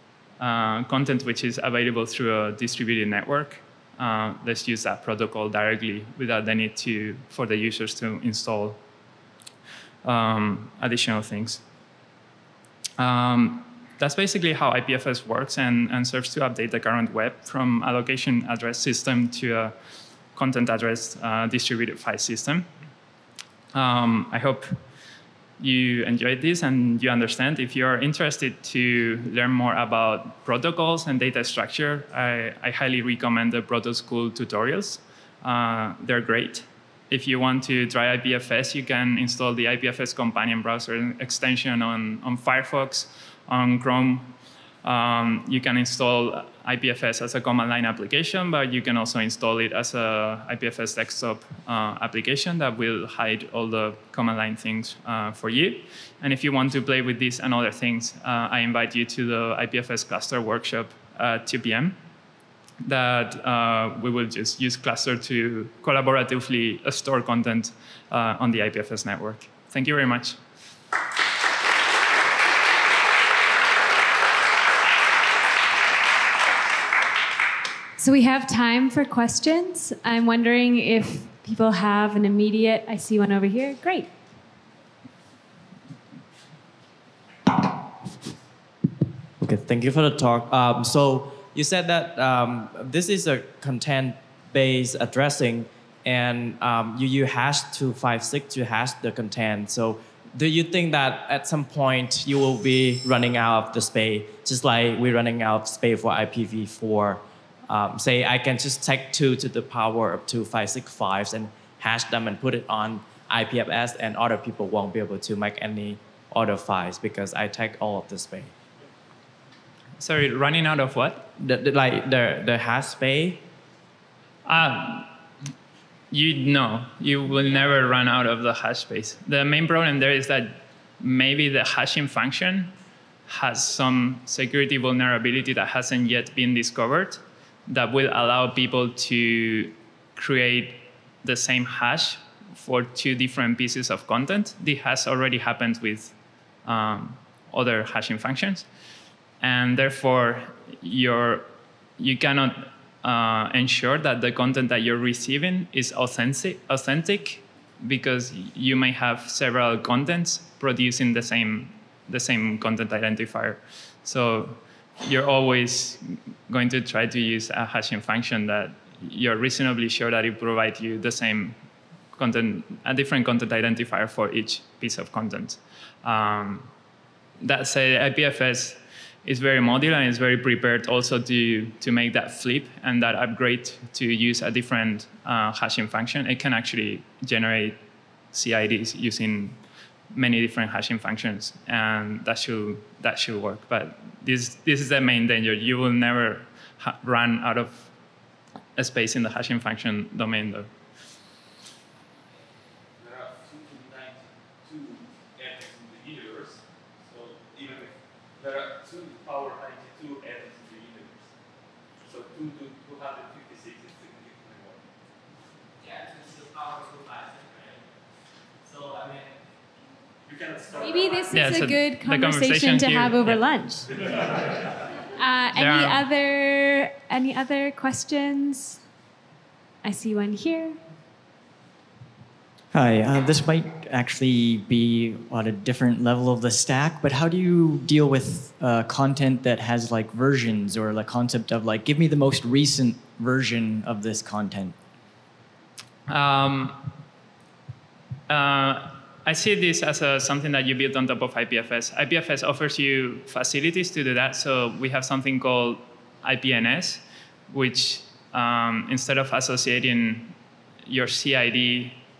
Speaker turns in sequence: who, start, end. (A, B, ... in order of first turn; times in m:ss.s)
0:00.4-0:08.8 A
0:10.0-0:11.6 A
0:13.0-0:19.7 A
0:20.3-0:22.7 A
0:23.7-0:24.8 A
0:25.6-1:02.0 A
1:02.8-1:10.4 A
1:18.0-1:24.1 B
1:29.4-1:58.5 C
2:00.0-2:01.3 A
2:01.4-2:03.4 C
2:04.4-2:05.1 A
2:06.1-2:12.7 A
2:13.3-2:28.6 A
2:29.4-2:51.6 A
2:52.2-2:56.7 A
2:57.4-3:07.8 A
3:08.3-3:09.6 A
3:10.1-3:17.9 A
3:18.8-3:20.7 A
3:23.0-3:31.3 D
3:32.0-3:34.8 D
3:38.7-3:39.1 D
3:40.2-3:41.5 D
3:40.8-3:43.9 B
3:41.3-3:43.4 A
3:44.0-3:44.4 D
3:45.2-3:48.8 B
3:45.5-3:46.0 A
3:49.8-3:50.8 B
3:52.7-4:04.8 E
4:06.1-4:06.8 A
4:08.3-4:22.0 A